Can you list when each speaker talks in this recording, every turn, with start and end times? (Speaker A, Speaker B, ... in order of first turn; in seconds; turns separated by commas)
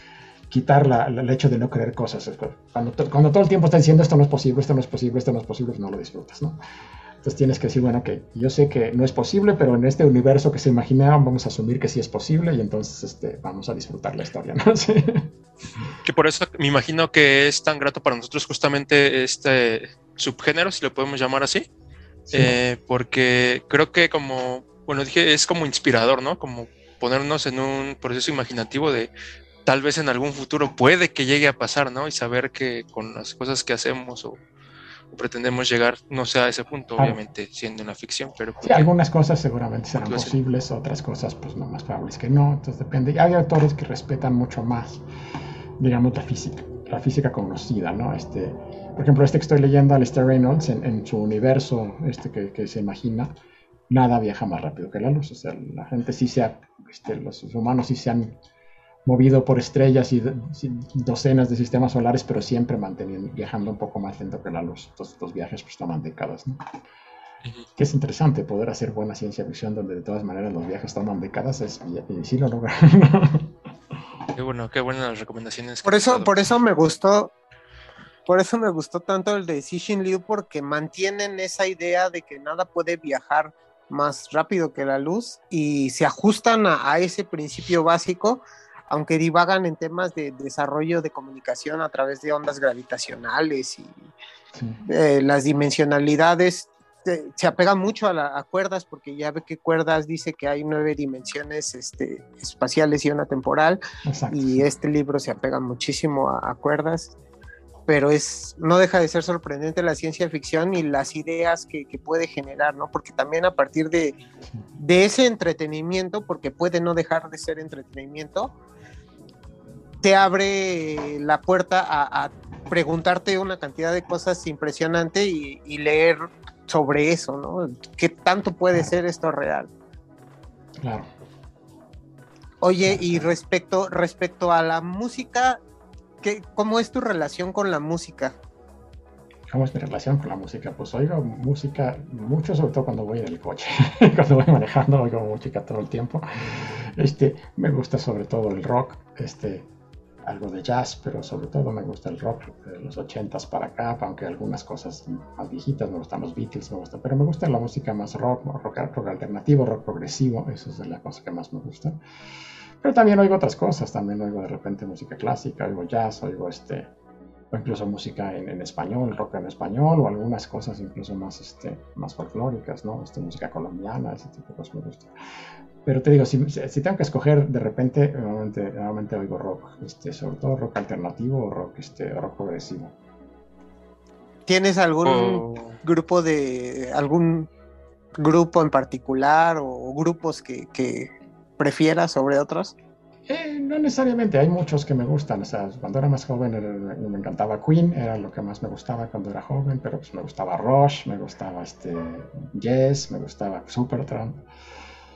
Speaker A: 0.5-6.6, Speaker A: 7.2-15.8, Speaker B: 16.0-21.7, Speaker A: 22.3-22.6, Speaker B: 22.3-29.1, Speaker B: 29.7-34.4, Speaker B: 35.1-38.9, Speaker A: 38.6-45.0, Speaker B: 40.0-40.3, Speaker A: 45.8-53.3, Speaker A: 53.9-58.4, Speaker A: 59.1-66.6, Speaker A: 67.8-73.5, Speaker B: 74.3-76.4, Speaker C: 75.8-77.3, Speaker C: 78.3-94.1, Speaker A: 94.5-94.8, Speaker C: 94.8-103.8, Speaker A: 104.0-104.7, Speaker C: 104.3-107.1, Speaker C: 107.9-114.2, Speaker C: 114.8-118.5, Speaker C: 120.0-129.7, Speaker A: 130.8-131.1, Speaker C: 132.6-135.6, Speaker A: 132.8-133.3, Speaker C: 136.2-138.4, Speaker A: 139.5-149.7, Speaker A: 150.2-162.0, Speaker A: 162.8-166.9, Speaker A: 167.5-175.1, Speaker A: 175.8-183.0, Speaker C: 184.5-187.5, Speaker B: 185.1-185.8, Speaker C: 188.2-192.8, Speaker A: 193.3-204.4